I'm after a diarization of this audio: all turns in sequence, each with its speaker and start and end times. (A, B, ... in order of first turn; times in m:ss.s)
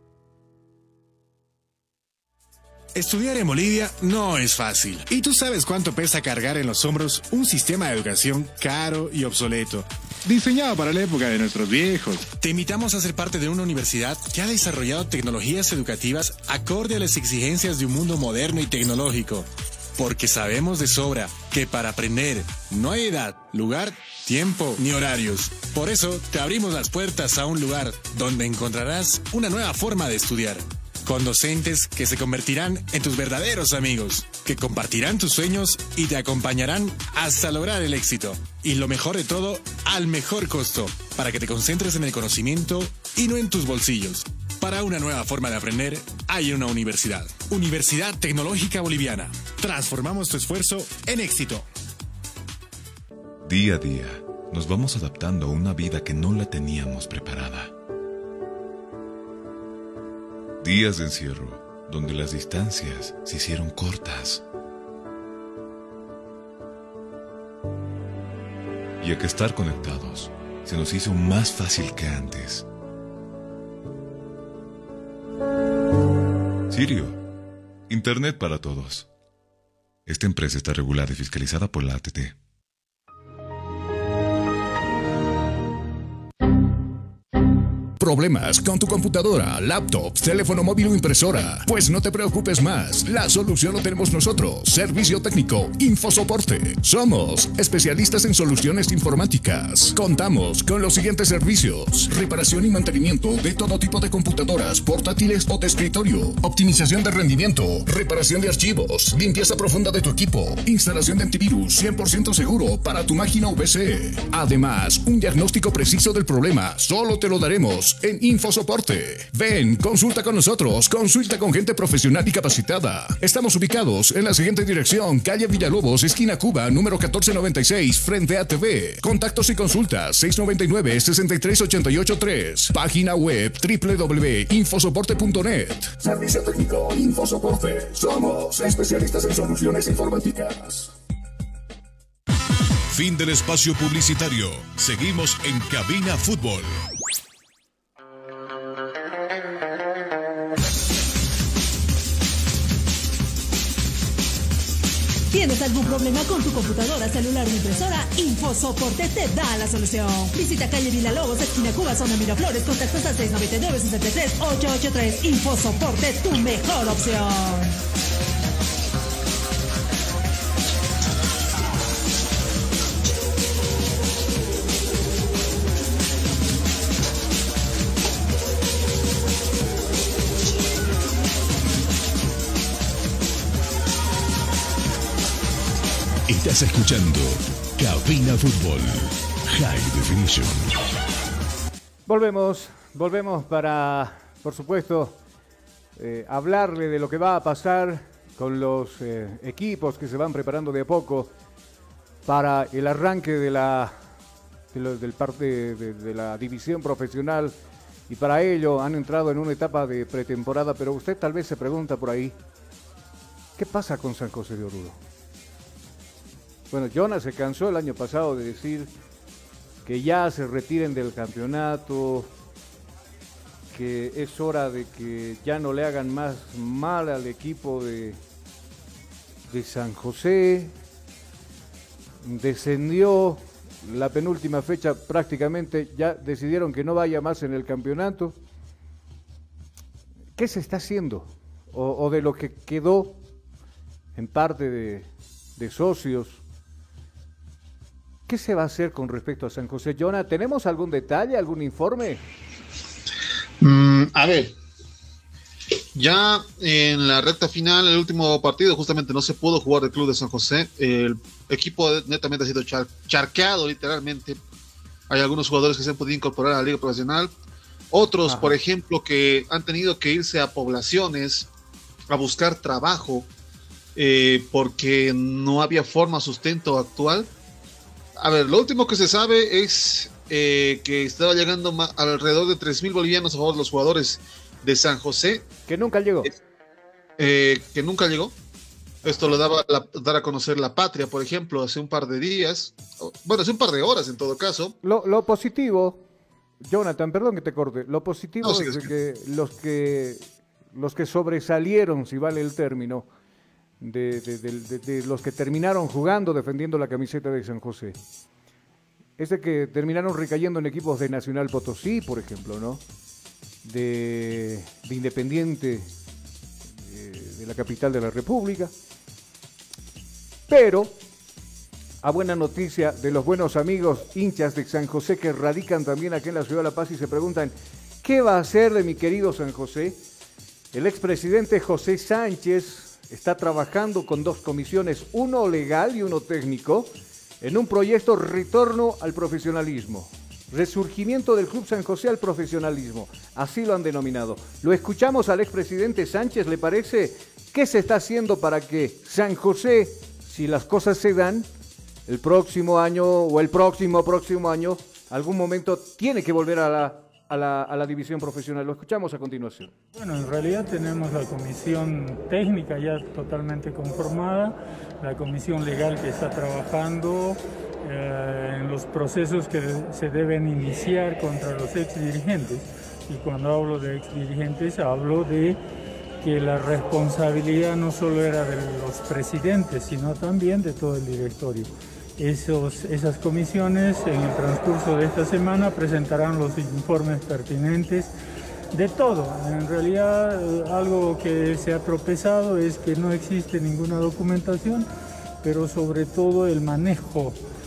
0:02.9-0:51.7 A
0:53.4-0:57.7 B
1:00.6-1:04.4 B
1:09.0-1:12.7 B
1:16.7-1:17.2 B
1:17.9-1:19.1 B
1:20.1-1:22.4 B
1:28.0-2:20.9 C
2:22.9-2:26.8 D
2:35.3-2:47.7 E
3:06.3-3:10.7 D
3:12.0-3:15.2 F
3:16.0-3:21.3 F
3:22.2-3:24.0 F
3:24.7-3:27.6 F
3:28.1-3:32.4 F
3:33.6-3:35.0 F
3:36.7-3:38.9 F
3:39.8-3:42.3 F
3:43.7-3:48.2 F
3:49.5-3:50.7 F
3:52.2-3:58.4 F
4:00.4-4:03.2 F
4:04.2-4:06.4 F
4:08.3-4:12.2 F
4:13.6-4:14.6 G
4:15.9-4:24.4 G
4:25.1-4:27.3 G
4:27.9-4:31.5 G
4:28.3-4:28.6 F
4:32.1-4:33.3 G
4:34.0-4:37.3 G
4:38.2-4:45.5 G
4:45.7-4:46.3 F
4:47.2-4:48.4 G
4:49.0-4:54.8 G
4:54.8-4:56.0 F
4:56.6-5:03.1 F
4:58.4-4:58.8 G
5:03.8-5:08.0 F
5:09.2-5:12.8 F
5:13.6-5:15.9 F
5:16.8-5:18.7 F
5:20.5-5:21.0 F
5:22.0-5:30.0 F
5:30.7-5:51.5 F
5:52.1-5:59.7 F
5:59.9-6:15.6 H
6:16.2-6:28.1 H
6:28.7-6:34.9 H
6:35.4-6:37.4 H